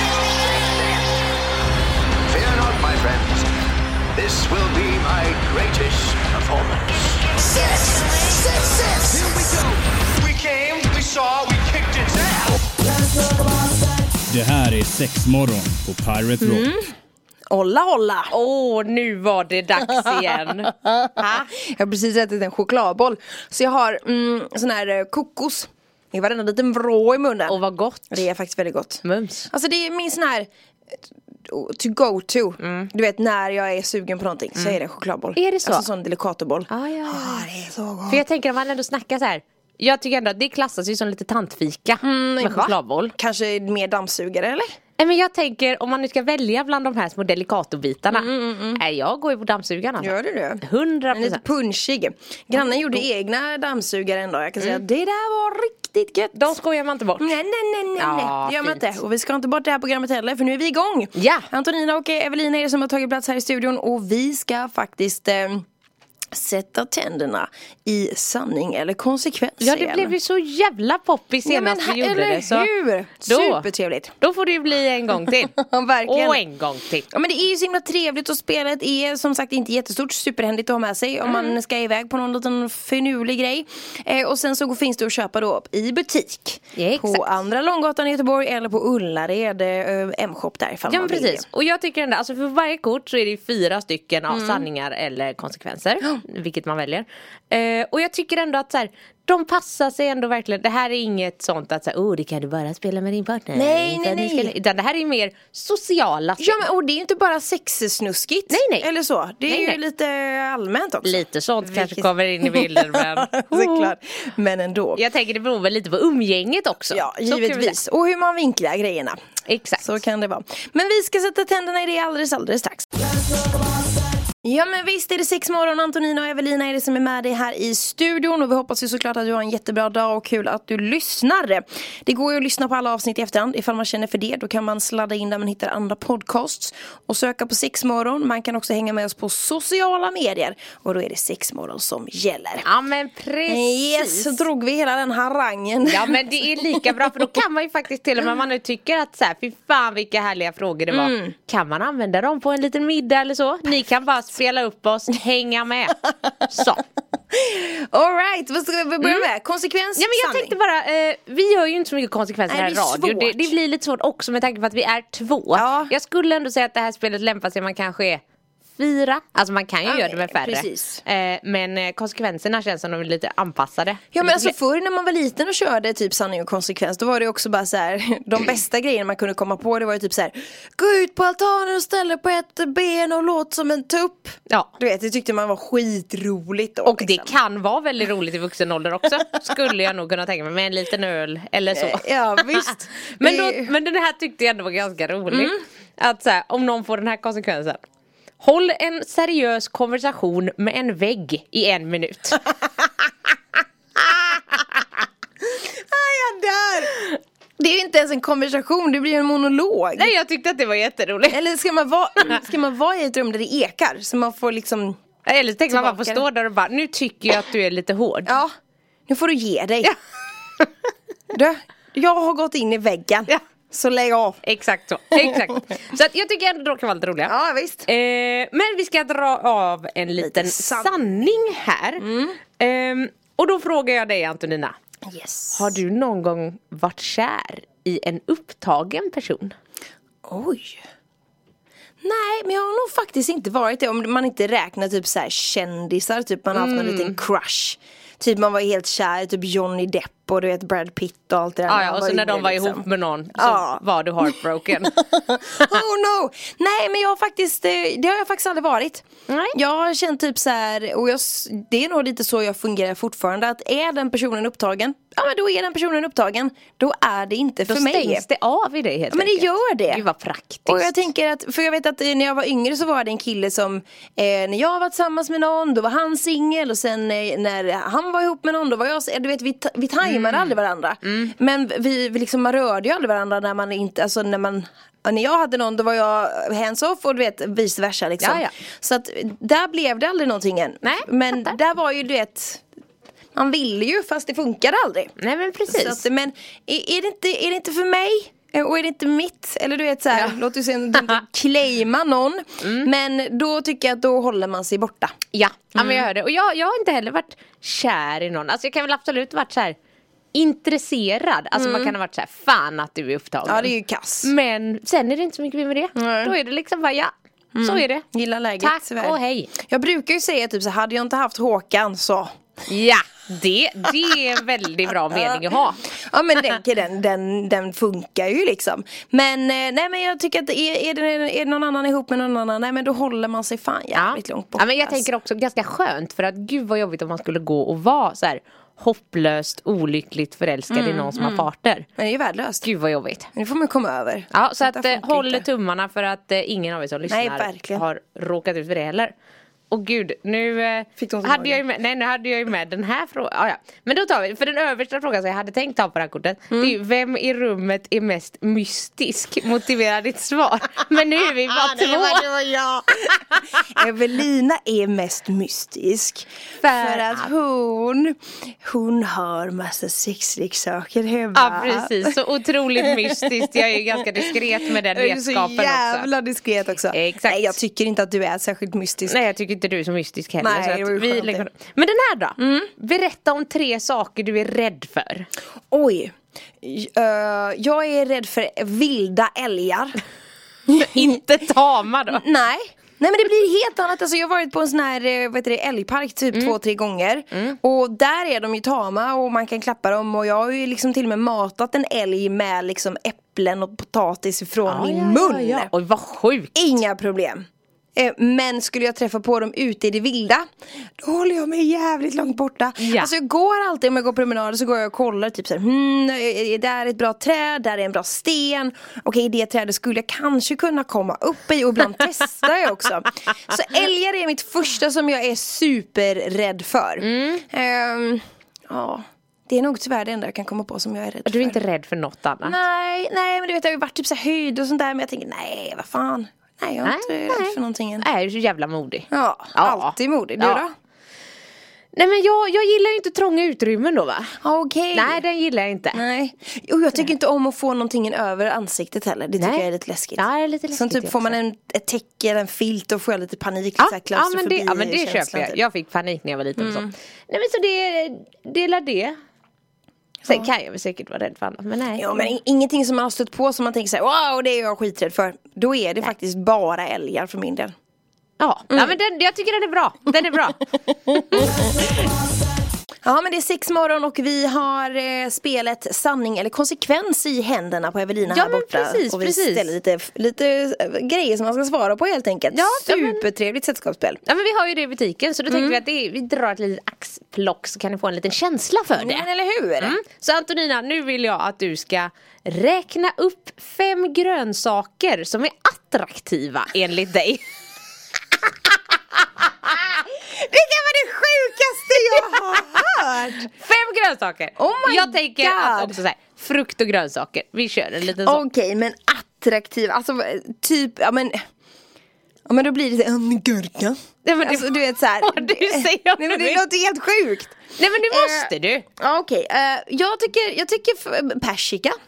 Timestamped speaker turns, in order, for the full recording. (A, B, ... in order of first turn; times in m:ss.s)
0:00.5-0:01.0 A
0:02.2-0:03.5 A
0:04.1-0:12.7 A
0:14.3-0:16.7 B
0:16.4-0:16.9 C
0:17.5-0:18.3 C
0:18.3-0:21.5 D
0:21.0-0:27.6 C
0:27.5-0:28.2 D
0:28.1-0:30.5 C
0:29.0-0:29.5 D
0:31.4-0:38.2 C
0:32.6-0:32.9 D
0:35.4-0:35.8 D
0:36.7-0:37.5 D
0:38.1-0:43.1 D
0:42.0-0:44.7 C
0:45.0-0:51.4 D
0:48.1-0:48.8 C
0:50.0-0:56.5 C
0:52.6-0:53.0 D
0:56.3-0:57.3 D
0:57.2-1:05.6 C
0:58.0-0:58.9 D
1:01.1-1:01.5 D
1:06.3-1:10.1 C
1:09.6-1:12.7 D
1:11.4-1:14.1 C
1:13.2-1:13.6 D
1:14.2-1:17.1 D
1:15.3-1:16.4 C
1:17.1-1:31.4 C
1:21.3-1:21.5 D
1:26.7-1:27.2 D
1:30.9-1:46.6 D
1:34.3-1:34.7 C
1:43.5-1:44.5 C
1:46.4-1:55.0 C
1:48.5-1:48.9 D
1:49.5-1:49.8 D
1:51.0-1:53.9 D
1:55.0-1:57.7 D
1:56.9-1:59.2 C
1:59.5-1:59.8 D
1:59.8-2:03.0 C
2:04.4-2:22.7 C
2:22.6-2:24.4 D
2:23.5-2:26.9 C
2:25.8-2:36.8 D
2:30.9-2:31.3 C
2:37.3-2:40.5 C
2:40.0-2:48.2 D
2:42.5-2:43.5 C
2:45.5-2:45.9 C
2:48.7-2:54.5 D
2:49.8-2:51.0 C
2:54.1-3:07.3 C
3:06.8-3:17.8 D
3:11.7-3:13.7 C
3:15.3-3:15.6 C
3:18.4-3:22.4 D
3:25.4-3:27.0 C
3:27.6-3:30.1 C
3:30.0-3:31.4 D
3:31.3-3:35.0 C
3:35.2-3:38.4 D
3:35.7-3:36.2 C
3:38.2-3:38.5 C
3:39.1-3:39.9 C
3:41.3-3:44.4 C
3:44.4-3:47.3 D
3:45.2-3:45.4 C
3:47.2-3:47.9 C
3:47.9-3:52.0 D
3:50.2-3:51.3 C
3:52.0-3:52.4 C
3:52.6-3:54.7 D
3:55.0-3:55.8 C
3:55.5-3:59.6 D
4:00.2-4:00.8 C
4:02.0-4:28.2 C
4:06.5-4:07.2 D
4:11.7-4:15.0 D
4:19.3-4:19.6 D
4:27.7-4:30.9 D
4:29.1-4:30.0 C
4:30.6-4:52.6 C
4:40.0-4:41.3 D
4:48.2-4:48.5 D
4:50.8-4:51.6 D
4:53.3-4:55.1 C
4:55.2-4:56.0 D
4:55.7-5:05.1 C
5:02.6-5:02.9 D
5:05.3-5:09.8 D
5:05.8-5:06.0 C
5:10.3-5:13.7 D
5:11.6-5:11.9 C
5:13.4-5:14.3 C
5:14.2-5:18.0 D
5:16.0-5:16.3 C
5:17.5-5:22.3 C
5:18.6-5:19.5 D
5:22.7-5:25.8 D
5:25.1-5:35.0 C
5:33.9-5:41.9 D
5:40.7-5:42.7 C
5:42.6-5:43.3 D
5:43.3-5:45.4 C
5:44.3-5:49.1 D
5:47.1-5:47.8 C
5:49.7-6:02.3 D
5:51.0-5:51.6 C
5:56.5-5:56.8 C
6:01.5-6:12.2 C
6:06.6-6:07.3 D
6:11.3-6:16.1 D
6:12.8-6:19.2 C
6:16.9-6:17.6 D
6:19.1-6:25.3 D
6:20.4-6:21.5 C
6:22.4-6:22.7 C
6:25.7-6:30.0 C
6:30.7-6:31.2 C
6:30.8-6:32.2 D
6:32.1-6:45.7 C
6:44.7-6:46.5 D
6:46.5-6:50.5 C
6:51.0-7:11.6 C
6:52.8-6:53.1 D
7:07.0-7:07.4 D
7:11.2-7:12.6 D
7:12.4-7:18.0 C
7:16.8-7:20.6 D
7:19.1-7:20.7 C
7:21.9-7:24.4 D
7:24.4-7:25.2 C
7:24.9-7:26.0 D
7:25.9-7:35.6 C
7:29.4-7:29.6 D
7:30.2-7:31.4 D
7:33.8-7:39.2 D
7:36.6-7:36.9 C
7:40.2-7:42.3 D
7:42.0-7:47.7 C
7:48.4-7:50.6 D
7:48.7-7:49.0 C
7:51.1-7:51.9 C
7:53.0-8:04.2 C
7:58.3-7:59.7 D
8:02.5-8:03.2 D
8:04.2-8:09.2 D
8:05.5-8:05.8 C
8:09.0-8:10.0 C
8:09.8-8:17.4 D
8:19.9-8:23.5 C
8:22.2-8:22.8 D
8:23.5-8:28.4 D
8:24.6-8:26.0 C
8:28.2-8:31.4 C
8:32.5-8:42.0 C
8:34.2-8:36.6 D
8:37.8-8:38.8 D